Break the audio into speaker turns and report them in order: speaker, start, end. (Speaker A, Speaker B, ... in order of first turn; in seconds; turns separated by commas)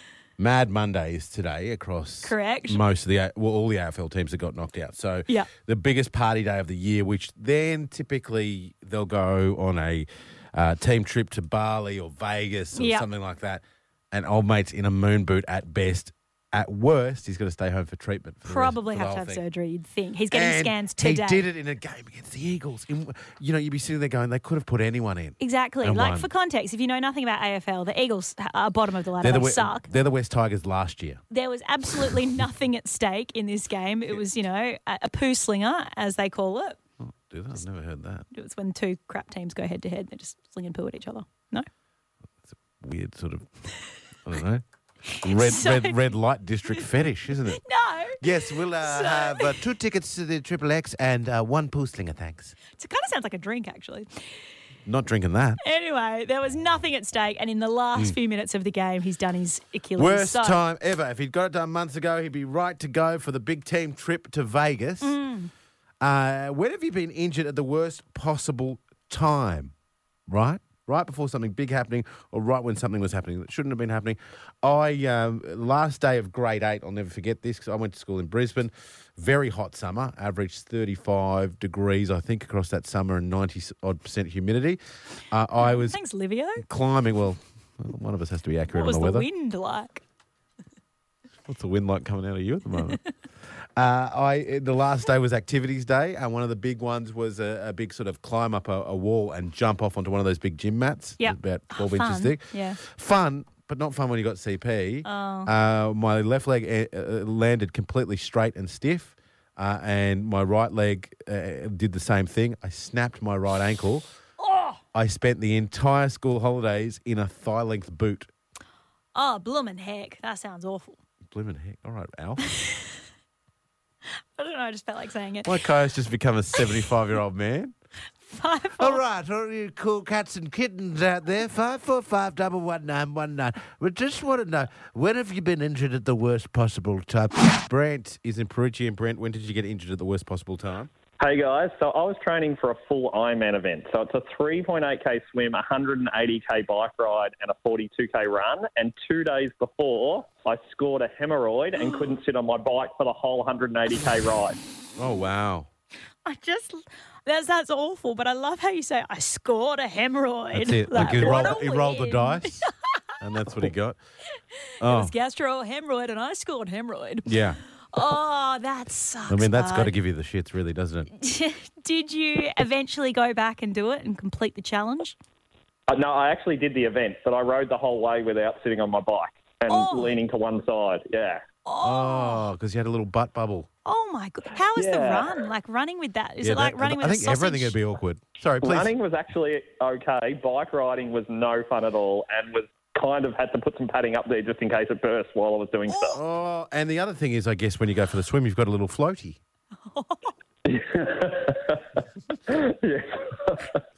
Speaker A: 0.4-19.4, Speaker B: 2.2-2.8, Speaker B: 12.7-13.1, Speaker B: 18.4-21.4, Speaker A: 20.3-26.3, Speaker B: 25.4-29.9, Speaker A: 29.2-31.2, Speaker B: 31.3-36.8, Speaker A: 37.0-38.2, Speaker B: 38.3-41.6, Speaker A: 42.5-43.5, Speaker A: 44.2-44.6, Speaker B: 45.1-46.1, Speaker A: 45.2-47.6, Speaker B: 47.6-49.6, Speaker A: 48.2-52.5, Speaker B: 52.7-54.1, Speaker A: 54.8-55.6, Speaker B: 55.6-60.6, Speaker A: 60.0-65.2, Speaker B: 65.0-65.5, Speaker A: 66.0-69.7, Speaker A: 70.3-86.0, Speaker B: 85.6-86.6, Speaker A: 86.6-89.3, Speaker B: 88.7-90.0, Speaker A: 91.5-93.0, Speaker A: 93.8-114.0, Speaker B: 101.2-102.8, Speaker B: 105.0-105.5, Speaker B: 114.4-114.8, Speaker A: 114.9-118.3, Speaker B: 119.1-121.0, Speaker A: 121.3-122.4, Speaker B: 122.6-122.9, Speaker B: 124.3-125.6, Speaker A: 125.4-127.7, Speaker B: 128.3-129.0, Speaker A: 128.8-140.9, Speaker C: 141.2-154.6, Speaker A: 154.9-155.7, Speaker B: 156.2-162.7, Speaker A: 160.5-164.0, Speaker B: 164.8-170.0, Speaker A: 164.8-165.1, Speaker A: 167.2-167.6, Speaker A: 169.3-171.1, Speaker B: 171.2-175.2, Speaker C: 175.9-181.4, Speaker B: 179.7-180.2, Speaker B: 181.7-182.5, Speaker A: 181.8-183.7, Speaker B: 183.8-187.8, Speaker C: 184.8-185.3, Speaker A: 186.4-188.9, Speaker C: 188.6-196.2, Speaker B: 195.9-196.2, Speaker A: 196.1-199.4, Speaker B: 199.8-200.3, Speaker C: 200.7-203.8